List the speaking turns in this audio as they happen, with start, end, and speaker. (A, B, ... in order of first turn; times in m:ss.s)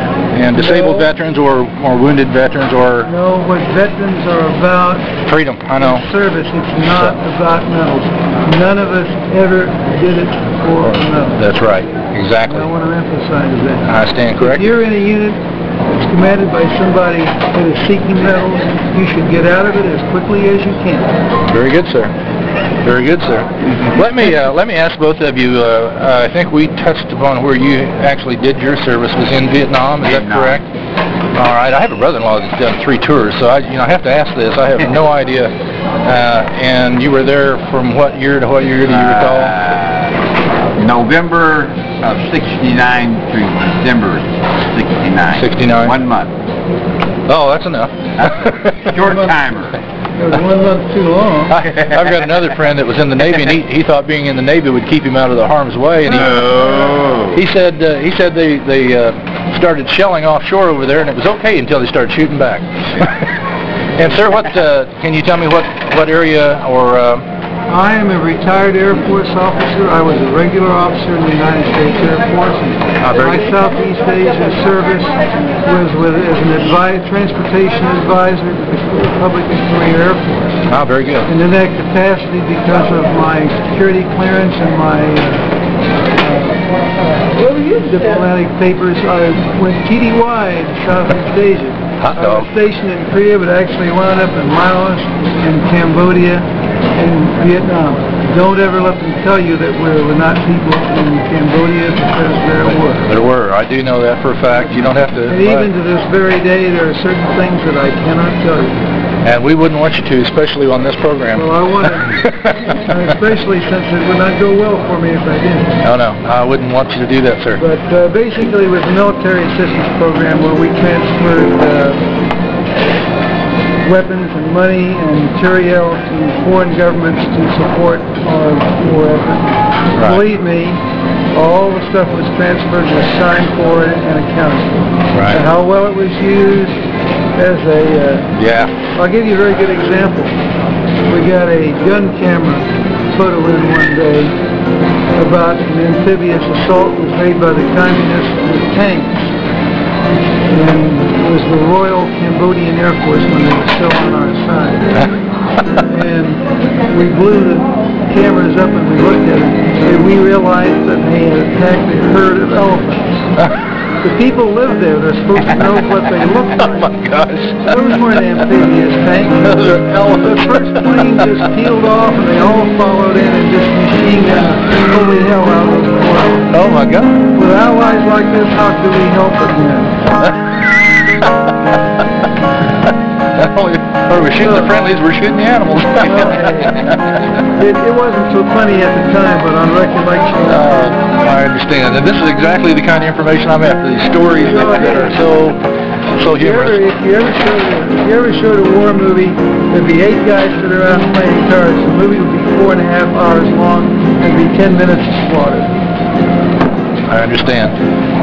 0:00.3-0:03.1 A
0:00.5-0:01.1 B
0:03.0-0:05.1 B
0:05.2-0:06.0 A
0:05.8-0:11.4 B
0:11.4-0:12.7 A
0:12.4-0:15.4 B
0:13.8-0:14.7 A
0:16.0-0:21.1 B
0:21.5-0:22.1 A
0:22.8-0:30.6 A
0:30.0-0:30.6 C
0:31.3-0:35.5 A
0:36.0-0:39.6 A
0:38.9-0:40.1 C
0:40.8-0:46.3 C
0:45.4-0:45.9 A
0:47.3-0:49.0 A
0:48.2-0:49.8 C
0:50.2-0:51.6 B
0:51.5-0:56.6 A
0:56.2-0:57.4 C
0:57.3-1:03.3 A
1:04.0-1:07.2 A
1:07.7-1:20.6 B
1:13.0-1:13.4 A
1:20.7-1:21.3 A
1:21.3-1:25.5 B
1:26.2-1:43.1 B
1:32.0-1:32.5 A
1:43.0-1:45.7 A
1:45.2-1:48.8 B
1:49.2-1:51.5 A
1:51.3-1:55.8 B
1:52.0-1:52.5 A
1:55.8-1:57.6 A
1:57.6-2:02.0 B
2:03.8-2:10.8 B
2:09.9-2:10.2 A
2:11.3-2:16.8 B
2:15.1-2:15.4 A
2:17.4-2:18.3 B
2:18.3-2:18.7 A
2:18.9-2:20.3 B
2:21.1-2:24.4 B
2:25.2-2:29.3 B
2:30.5-2:35.0 B
2:35.8-2:43.2 B
2:44.0-2:46.9 B
2:46.6-2:47.7 A
2:47.6-2:56.5 B
2:49.4-2:51.2 A
2:56.5-2:57.2 A
2:57.3-3:00.0 B
3:03.3-3:07.0 A
3:04.4-3:04.7 B
3:06.0-3:10.9 B
3:10.5-3:15.6 A
3:14.4-3:15.2 B
3:16.1-3:16.8 A
3:16.3-3:25.7 B
3:27.1-3:27.8 A